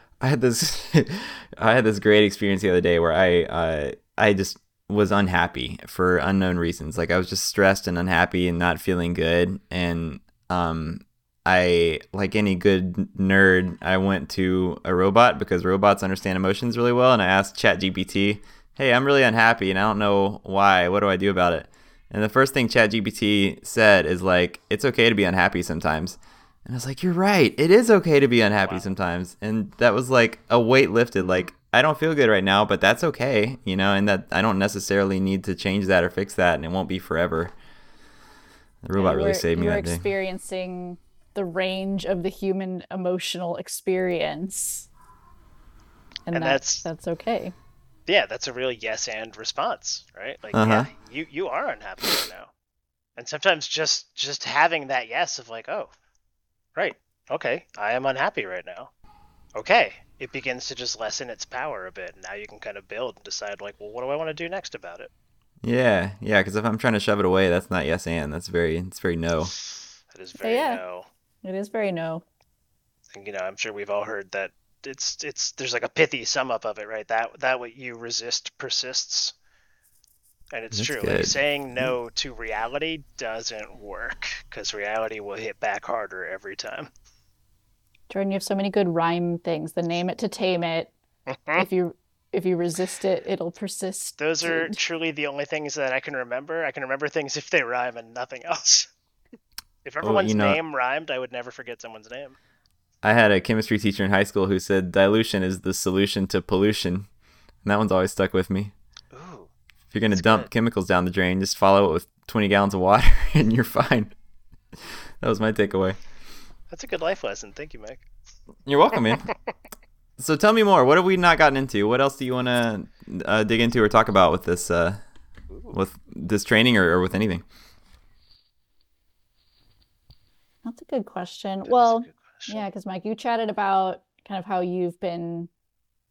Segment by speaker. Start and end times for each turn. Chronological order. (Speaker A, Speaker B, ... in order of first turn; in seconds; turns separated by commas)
Speaker A: 0.2-37.5, Speaker B: 28.6-28.9, Speaker A: 38.8-40.1, Speaker C: 39.0-44.9, Speaker C: 46.3-47.5, Speaker B: 46.3-46.9, Speaker B: 48.1-52.5, Speaker A: 50.5-50.9, Speaker B: 53.2-55.9, Speaker B: 56.8-58.9, Speaker B: 59.5-65.1, Speaker A: 65.6-69.5, Speaker B: 70.1-71.1, Speaker C: 70.4-70.8, Speaker C: 71.4-72.2, Speaker B: 73.1-79.3, Speaker B: 80.5-86.9, Speaker A: 80.7-81.9, Speaker C: 88.1-90.9, Speaker B: 91.3-91.7, Speaker C: 91.6-94.8, Speaker B: 94.2-98.9, Speaker B: 99.8-102.4, Speaker A: 100.0-100.6, Speaker A: 103.0-107.1, Speaker A: 107.6-108.7, Speaker B: 109.1-109.5, Speaker A: 109.9-114.2, Speaker B: 110.1-110.5, Speaker A: 115.2-116.0, Speaker B: 116.7-118.0, Speaker A: 118.7-119.3, Speaker A: 120.2-125.0, Speaker A: 125.7-127.4, Speaker C: 130.7-135.5, Speaker B: 131.7-132.6